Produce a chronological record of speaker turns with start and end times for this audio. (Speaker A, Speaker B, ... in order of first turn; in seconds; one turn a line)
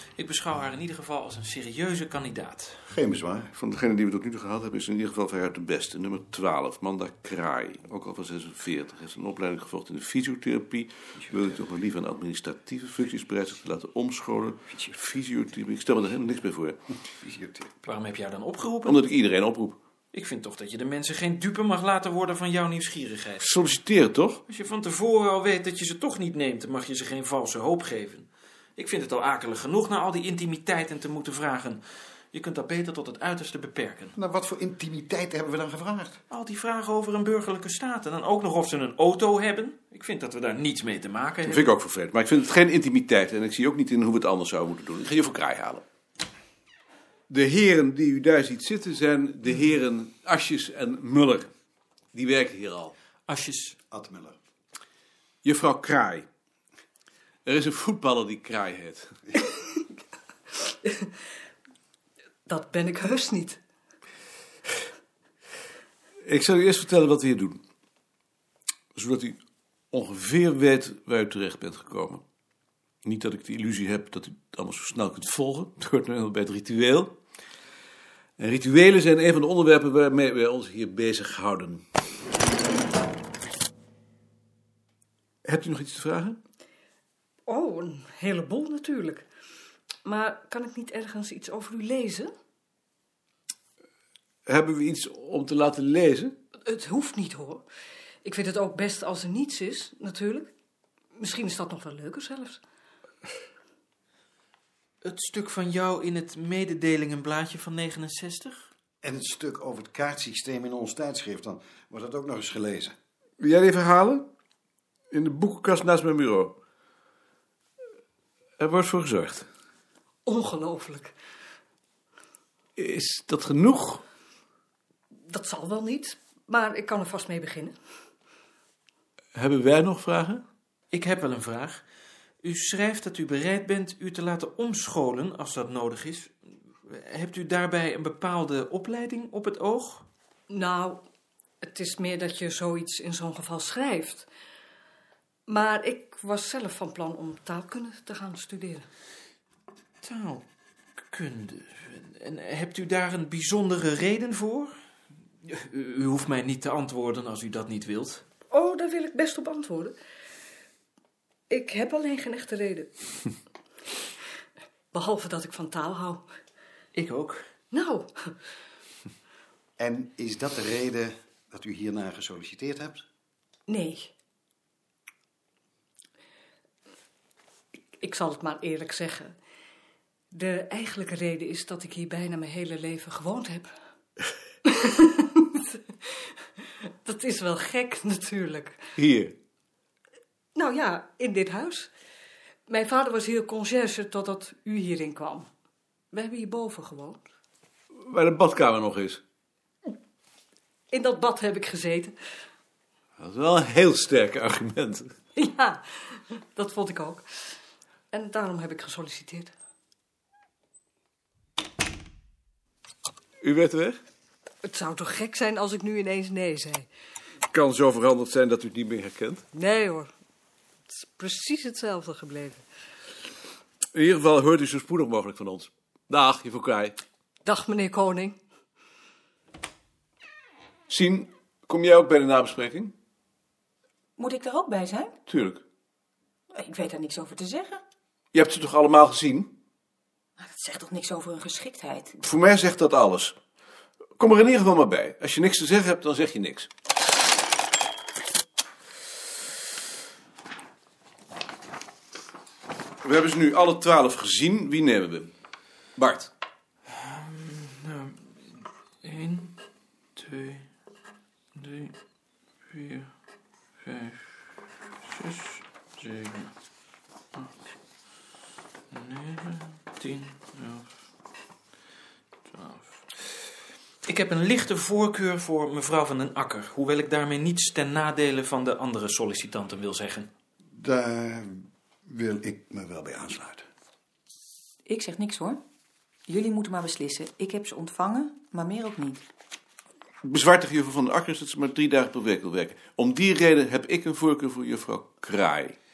Speaker A: 0.2-2.8
Speaker B: 2.9-3.5
Speaker C: 3.5-16.8
Speaker B: 17.1-17.7
Speaker A: 17.8-19.1
Speaker C: 18.8-19.8
Speaker A: 20.1-23.5
Speaker C: 23.4-24.4
Speaker A: 24.5-34.1
Speaker B: 34.2-36.2
Speaker A: 36.3-41.7
Speaker C: 41.4-45.8
Speaker C: 47.3-51.5
Speaker C: 52.1-52.9
Speaker A: 53.3-53.8
Speaker B: 53.9-54.4
Speaker C: 55.4-56.2
Speaker C: 57.5-59.1
Speaker D: 60.6-61.1
Speaker D: 62.5-63.6
Speaker C: 66.2-67.6
Speaker C: 68.9-69.4
Speaker C: 69.9-72.2
Speaker C: 73.0-77.1
Speaker C: 78.4-81.8
Speaker C: 85.4-86.4
Speaker D: 87.5-89.2
Speaker D: 90.0-92.3
Speaker C: 94.5-96.4
Speaker D: 96.7-97.6
Speaker D: 98.2-100.5
Speaker D: 101.2-102.6
Speaker A: 105.0-108.7
Speaker B: 109.0-112.9
Speaker C: 113.4-114.3
Speaker C: 115.1-116.5
Speaker C: 118.6-119.5
Speaker D: 120.3-121.1
Speaker C: 122.8-124.0
Speaker D: 125.3-127.7
Speaker C: 129.3-130.4
Speaker A: 130.9-131.8
Speaker A: 132.4-136.3
Speaker A: 136.9-140.1
Speaker D: 140.5-141.0
Speaker D: 141.6-144.3
Speaker D: 145.5-148.9
Speaker A: 150.0-150.4
Speaker A: 151.1-154.8
Speaker A: 155.4-158.2
Speaker D: 158.5-159.9
Speaker D: 161.5-162.9
Speaker D: 164.9-166.2
Speaker A: 166.9-167.5
Speaker D: 167.7-168.3
Speaker B: 169.8-173.0
Speaker D: 173.7-174.1
Speaker D: 178.0-179.3
Speaker D: 180.3-183.7
Speaker D: 184.7-186.2
Speaker D: 186.8-188.8
Speaker C: 189.0-189.3
Speaker D: 190.6-191.9
Speaker D: 192.7-195.5
Speaker D: 196.1-197.2
Speaker C: 198.0-199.2
Speaker D: 200.9-202.1
Speaker C: 203.2-205.1
Speaker D: 205.4-207.2
Speaker D: 208.1-209.5
Speaker C: 213.4-214.0
Speaker D: 214.6-216.9
Speaker C: 217.5-219.4
Speaker D: 219.5-220.1
Speaker D: 220.9-222.6
Speaker C: 223.9-227.0
Speaker D: 227.4-228.4
Speaker C: 230.9-232.9
Speaker E: 234.2-235.2
Speaker C: 235.3-235.6
Speaker E: 236.5-237.8
Speaker C: 238.3-239.5
Speaker E: 240.4-242.1
Speaker C: 242.2-243.3
Speaker C: 244.2-246.7
Speaker C: 253.0-255.3
Speaker C: 256.0-256.3
Speaker A: 257.0-258.4
Speaker A: 259.0-259.6
Speaker A: 260.2-260.7
Speaker A: 261.6-261.9
Speaker A: 262.7-263.1
Speaker A: 263.8-264.3
Speaker A: 265.0-266.5
Speaker A: 268.9-270.9
Speaker A: 272.5-273.0
Speaker A: 274.0-280.3
Speaker B: 280.8-283.6
Speaker E: 284.9-285.6
Speaker E: 286.3-289.2
Speaker C: 290.2-295.8